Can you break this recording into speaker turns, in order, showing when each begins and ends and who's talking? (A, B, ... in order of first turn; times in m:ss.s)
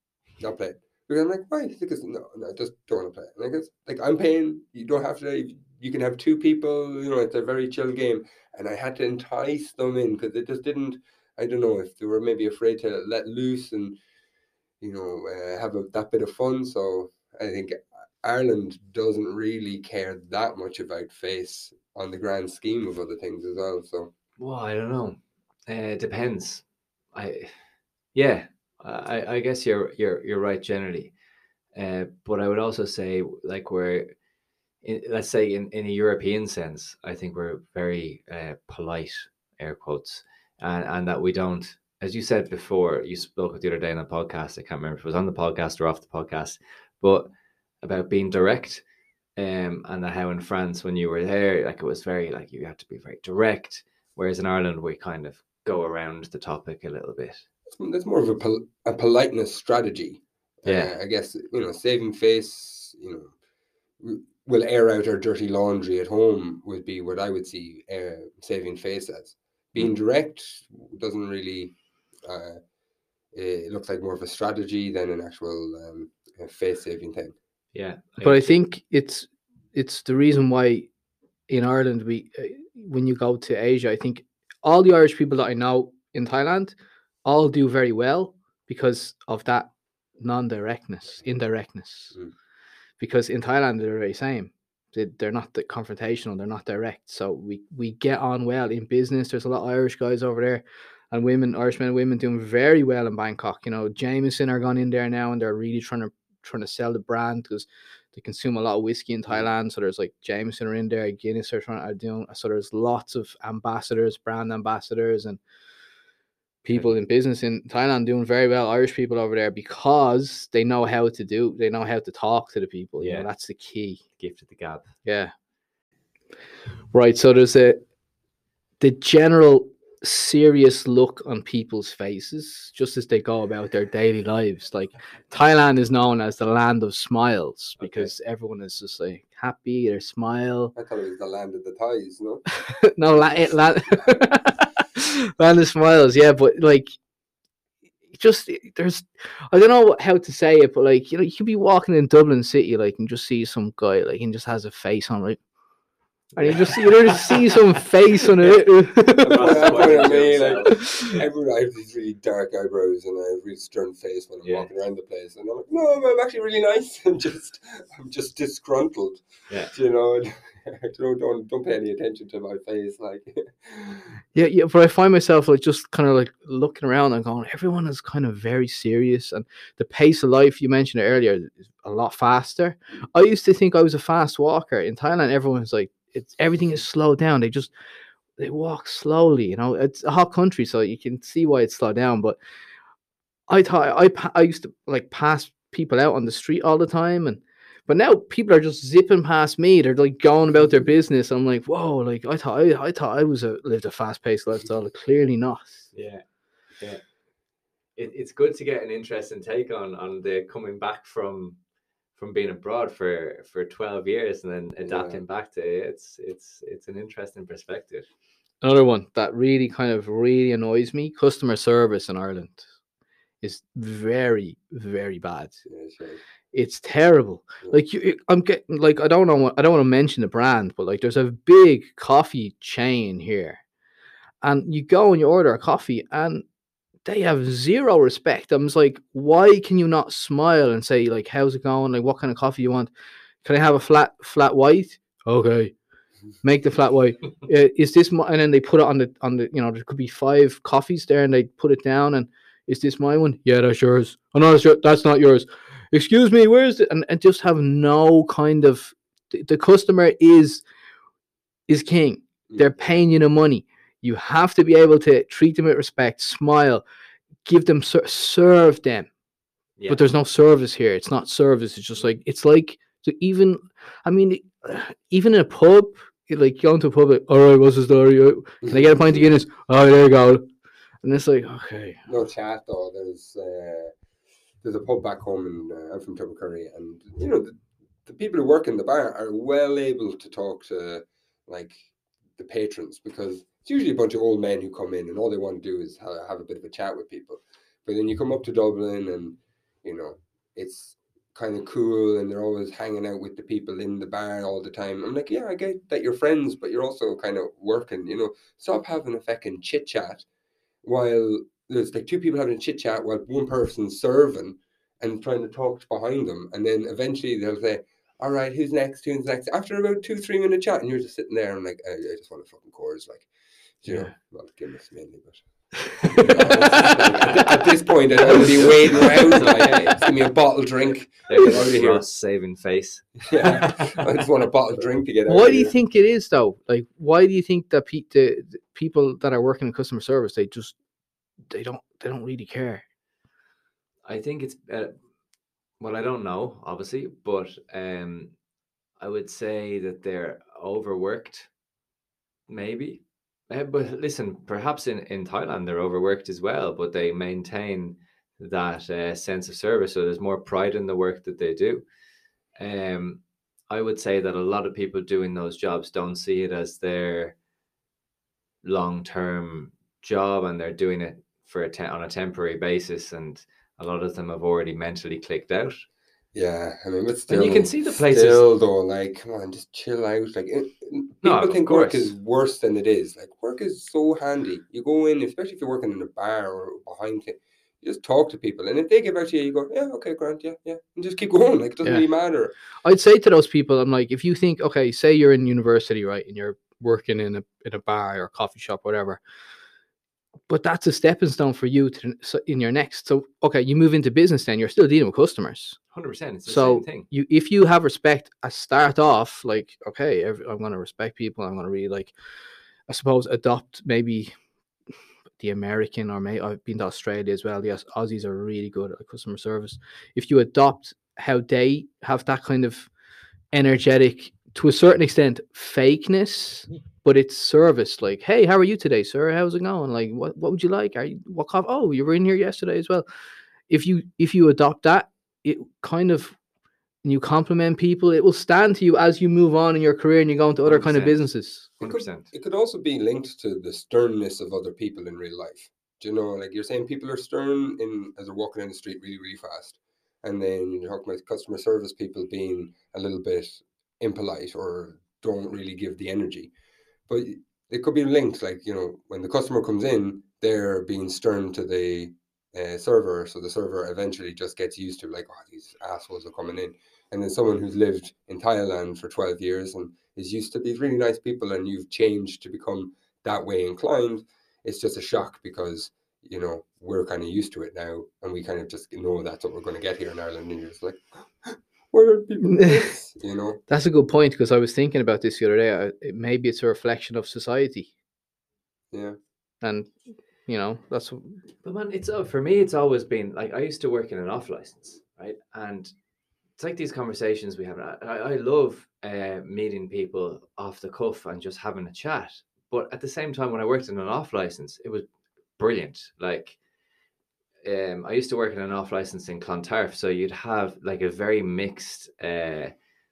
0:00.4-0:14.0 A
0:14.8-0:24.1 A
0:24.4-0:26.6 B
0:27.1-0:27.6 B
0:28.1-0:31.1 B
0:31.8-0:34.1 B
0:34.8-0:47.3 B
0:47.8-0:48.8 B
0:49.4-0:57.4 B
0:57.7-1:03.3 A
1:00.6-1:01.0 B
1:04.0-1:12.6 A
1:13.3-1:17.4 A
1:17.8-1:18.6 B
1:18.2-1:20.9 C
1:21.5-1:29.7 C
1:30.2-1:32.2 C
1:33.0-1:55.4 C
1:56.6-2:04.0 C
2:03.0-2:03.3 B
2:04.2-2:04.9 B
2:05.1-2:05.3 C
2:06.9-2:07.8 C
2:08.8-2:20.7 C
2:17.8-2:18.1 A
2:20.8-2:22.4 A
2:22.7-2:26.9 C
2:28.1-2:35.4 C
2:36.4-2:37.4 B
2:36.4-2:39.9 C
2:39.2-2:41.3 B
2:39.2-2:54.2 A
2:49.5-2:49.7 B
2:54.4-3:07.7 C
3:08.4-3:12.4 C
3:13.5-3:25.9 C
3:25.9-3:26.2 B
3:28.0-3:31.6 B
3:32.2-3:38.1 B
3:34.8-3:35.2 A
3:38.6-3:42.7 C
3:43.4-3:45.6 C
3:45.7-3:46.2 A
3:46.5-3:53.6 C
3:54.4-3:56.4 C
3:57.1-4:02.9 C
4:03.4-4:05.7 C
4:06.4-4:20.6 C
4:21.7-4:26.8 C
4:22.5-4:22.8 A
4:27.5-4:29.1 C
4:29.8-4:30.0 B
4:29.9-4:40.5 C
4:38.6-4:39.2 A
4:41.0-4:42.0 C
4:42.1-4:43.9 A
4:44.6-5:10.3 A
5:10.8-5:23.3 A
5:23.8-5:25.4 A
5:23.9-5:24.1 C
5:25.9-5:32.0 A
5:26.2-5:27.5 B
5:28.2-5:30.0 B
5:31.3-5:34.0 B
5:33.3-5:35.7 A
5:35.3-5:40.8 C
5:41.5-5:42.8 C
5:44.1-5:44.9 B
5:45.8-5:48.3 B
5:49.0-5:51.5 B
5:52.5-6:01.8 B
6:02.6-6:07.4 B
6:08.6-6:15.8 B
6:16.3-6:32.5 A
6:17.3-6:18.4 B
6:21.2-6:22.1 B
6:32.8-6:39.2 C
6:40.5-6:45.8 C
6:45.9-6:47.1 B
6:46.5-6:52.1 C
6:52.9-6:54.3 C
6:55.4-7:02.9 C
7:03.5-7:13.0 C
7:13.7-7:16.4 C
7:17.0-7:21.7 C
7:20.6-7:21.3 B
7:21.8-7:22.3 B
7:21.8-7:36.5 A
7:37.1-8:03.6 A
8:02.4-8:02.9 C
8:03.7-8:07.9 C
8:08.9-8:09.2 A
8:09.6-8:09.9 C
8:10.5-8:11.4 C
8:11.6-8:15.9 B
8:16.6-8:25.1 B
8:25.6-8:26.6 B
8:27.6-8:32.7 B